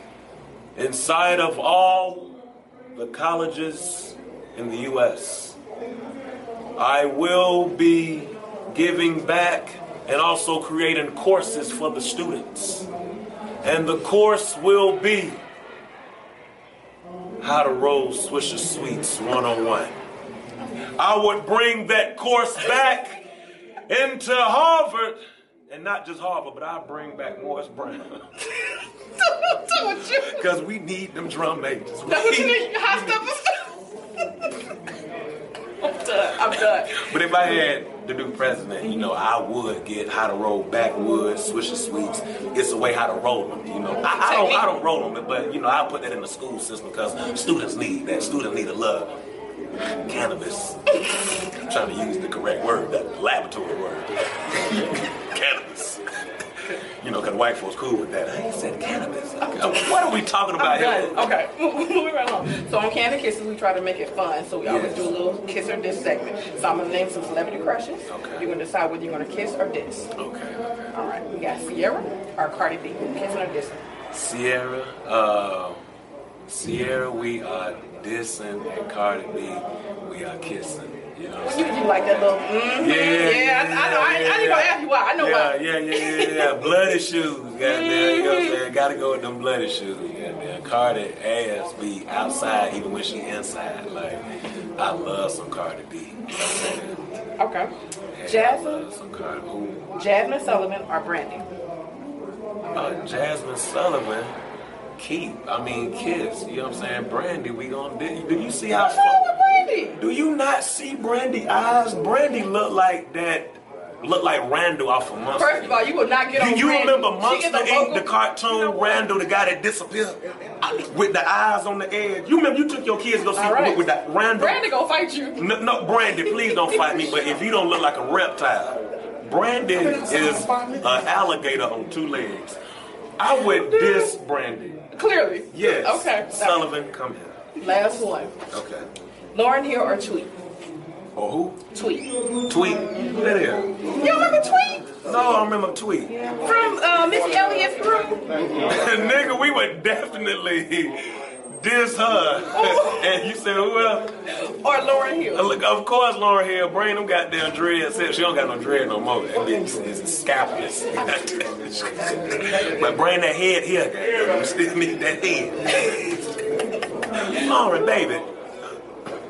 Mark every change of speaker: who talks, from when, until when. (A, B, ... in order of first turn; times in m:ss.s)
0:00.8-0:02.4 A
0:02.9-0:05.6 A
0:06.8-0:12.9 A
0:13.6-0:15.4 A
0:17.4-0:20.0 A
0:21.0-0:23.2 A
0:23.9-0:25.2 A
0:25.7-0:28.2 A
0:29.2-0:30.4 B
0:30.0-0:33.2 A
0:32.0-0:33.8 B
0:35.8-0:37.0 B
0:36.4-0:49.1 A
0:44.0-0:44.7 B
0:50.0-0:51.0 A
0:51.6-0:56.0 A
0:57.0-1:01.3 A
0:59.4-0:59.9 B
1:00.6-1:10.1 B
1:04.6-1:05.1 A
1:08.1-1:08.5 A
1:10.2-1:10.6 A
1:10.9-1:13.8 B
1:14.1-1:15.8 A
1:16.5-1:34.2 A
1:21.4-1:26.7 B
1:27.6-1:28.6 B
1:34.8-1:37.0 A
1:37.4-1:37.7 B
1:38.1-1:39.9 A
1:38.2-1:38.8 B
1:39.9-1:41.5 B
1:42.7-1:44.4 A
1:45.0-1:49.2 A
1:48.7-1:50.0 B
1:50.0-1:55.8 A
1:55.4-1:58.0 B
1:56.3-2:04.6 A
2:03.3-2:05.4 B
2:05.4-2:12.6 A
2:06.1-2:07.3 B
2:09.8-2:10.8 B
2:13.2-2:14.9 A
2:13.4-2:14.1 B
2:14.9-2:16.6 B
2:15.5-2:17.3 A
2:17.6-2:18.4 B
2:18.5-2:18.8 A
2:19.3-2:20.3 B
2:21.1-2:21.6 A
2:21.7-2:22.1 B
2:22.5-2:23.8 A
2:23.9-2:25.0 B
2:25.0-2:26.1 A
2:26.1-2:28.3 B
2:28.6-2:34.1 A
2:32.5-2:33.1 B
2:34.3-2:35.5 B
2:35.3-2:46.3 A
2:47.2-2:48.3 A